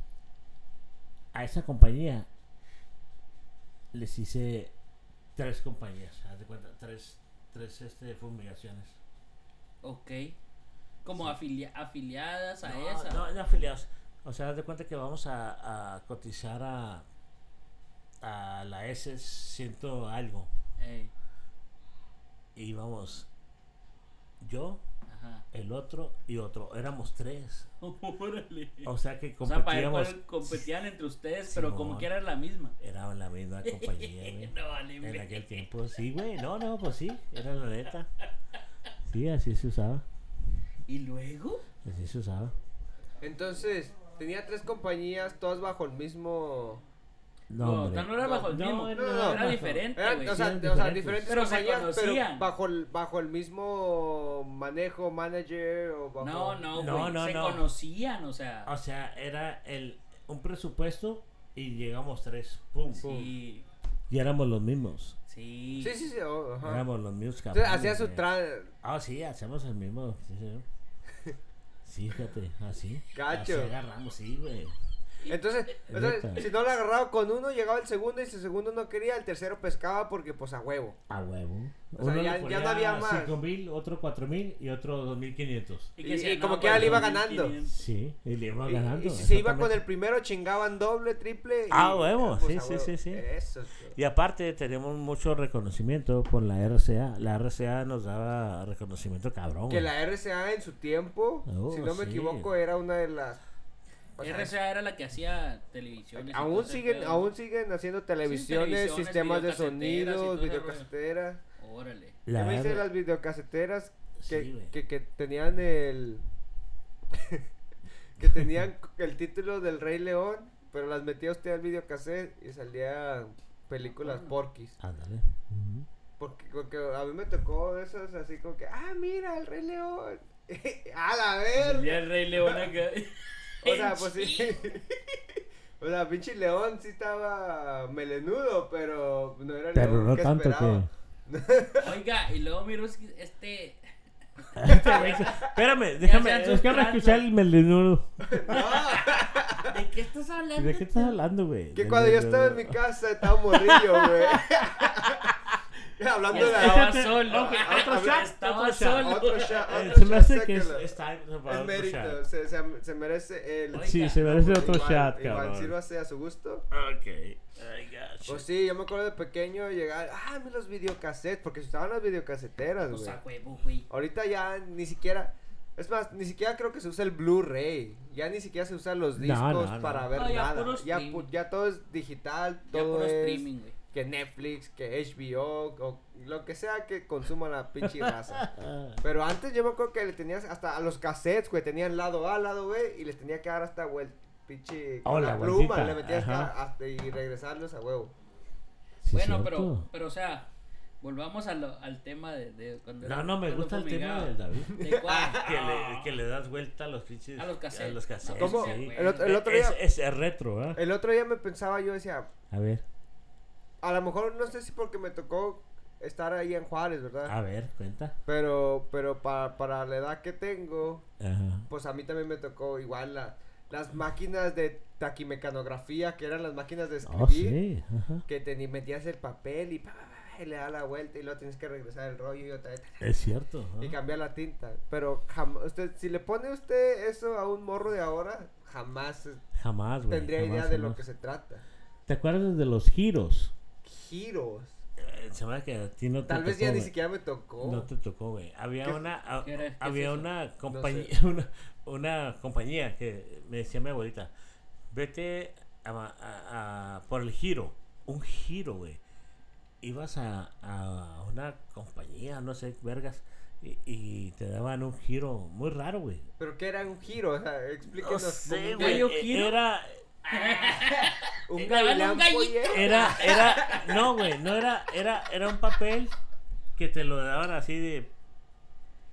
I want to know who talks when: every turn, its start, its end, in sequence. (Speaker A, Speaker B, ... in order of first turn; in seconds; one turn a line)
Speaker A: 1.3-2.3
Speaker A: 3.9-4.7
Speaker A: 5.3-9.0
Speaker B: 9.8-10.4
Speaker B: 11.0-13.7
Speaker A: 12.6-17.1
Speaker A: 18.2-20.5
Speaker B: 20.8-21.1
Speaker A: 22.5-23.3
Speaker A: 24.4-24.8
Speaker B: 25.1-25.4
Speaker A: 25.5-27.7
Speaker B: 27.8-32.8
Speaker A: 28.8-30.7
Speaker A: 31.5-32.1
Speaker A: 32.8-38.1
Speaker B: 33.6-35.6
Speaker A: 39.0-40.0
Speaker B: 40.9-41.6
Speaker A: 41.8-42.5
Speaker C: 43.2-46.8
Speaker A: 47.5-51.3
Speaker B: 47.6-50.4
Speaker C: 48.2-56.7
Speaker B: 51.3-52.5
Speaker B: 56.2-58.7
Speaker A: 56.7-57.7
Speaker A: 58.6-63.0
Speaker B: 62.9-63.6
Speaker C: 63.0-63.3
Speaker A: 64.1-65.2
Speaker B: 65.3-66.0
Speaker C: 65.8-66.8
Speaker A: 66.6-68.2
Speaker C: 67.5-68.7
Speaker A: 68.8-70.7
Speaker A: 71.8-74.7
Speaker C: 73.1-73.7
Speaker C: 75.3-81.0
Speaker A: 75.9-76.5
Speaker A: 81.1-85.9
Speaker C: 82.0-83.4
Speaker B: 86.0-87.8
Speaker C: 86.0-87.5
Speaker A: 86.7-87.1
Speaker A: 87.6-89.8
Speaker C: 88.7-94.0
Speaker A: 91.7-93.2
Speaker A: 93.9-99.9
Speaker C: 99.7-103.4
Speaker A: 101.5-102.5
Speaker C: 104.2-104.5
Speaker B: 104.2-107.3
Speaker C: 106.1-111.4
Speaker B: 108.2-110.9
Speaker B: 111.6-112.2
Speaker A: 112.2-112.9
Speaker C: 112.3-116.2
Speaker A: 114.2-114.7
Speaker C: 117.1-117.4
Speaker C: 118.2-124.8
Speaker A: 118.2-118.6
Speaker B: 123.8-124.3
Speaker A: 124.8-125.9
Speaker C: 126.2-132.7
Speaker B: 131.5-134.6
Speaker C: 133.6-141.9
Speaker A: 139.7-140.9
Speaker B: 141.8-144.9
Speaker A: 144.5-148.8
Speaker C: 144.7-145.5
Speaker B: 146.0-147.2
Speaker C: 148.2-149.8
Speaker B: 148.5-151.1
Speaker A: 150.6-155.6
Speaker C: 151.7-155.3
Speaker C: 156.0-158.3
Speaker A: 156.3-162.2
Speaker B: 156.3-159.7
Speaker C: 158.9-166.7
Speaker B: 163.7-164.2
Speaker A: 163.7-165.8
Speaker A: 166.7-168.5
Speaker C: 168.2-173.2
Speaker B: 172.9-173.9
Speaker C: 173.9-188.5
Speaker A: 179.2-180.1
Speaker B: 180.1-181.3
Speaker B: 182.7-183.8
Speaker A: 187.8-189.0
Speaker C: 189.0-198.1
Speaker A: 195.0-196.5
Speaker A: 199.0-199.9
Speaker B: 199.1-200.5
Speaker B: 201.0-206.1
Speaker A: 203.0-204.8
Speaker C: 204.7-205.7
Speaker A: 205.4-210.8
Speaker B: 207.4-209.3
Speaker C: 208.4-209.8
Speaker C: 210.8-212.3
Speaker A: 212.5-212.8
Speaker C: 213.8-217.3
Speaker A: 217.2-218.1
Speaker C: 218.3-221.1
Speaker A: 221.2-221.7
Speaker C: 221.7-227.6
Speaker A: 227.0-228.2
Speaker C: 228.3-233.3
Speaker A: 233.0-234.0
Speaker C: 233.8-239.4
Speaker A: 239.5-241.0
Speaker C: 240.1-241.6
Speaker A: 242.1-243.5
Speaker C: 243.8-244.8
Speaker A: 245.0-246.9
Speaker C: 246.2-247.9
Speaker A: 247.6-254.3
Speaker B: 249.4-250.3
Speaker C: 250.7-251.1
Speaker A: 254.9-259.0
Speaker A: 259.8-266.3
Speaker C: 266.4-269.1
Speaker A: 267.9-270.8
Speaker B: 268.8-269.6
Speaker B: 270.3-273.9
Speaker C: 271.5-273.9
Speaker A: 272.7-276.1
Speaker A: 276.7-278.1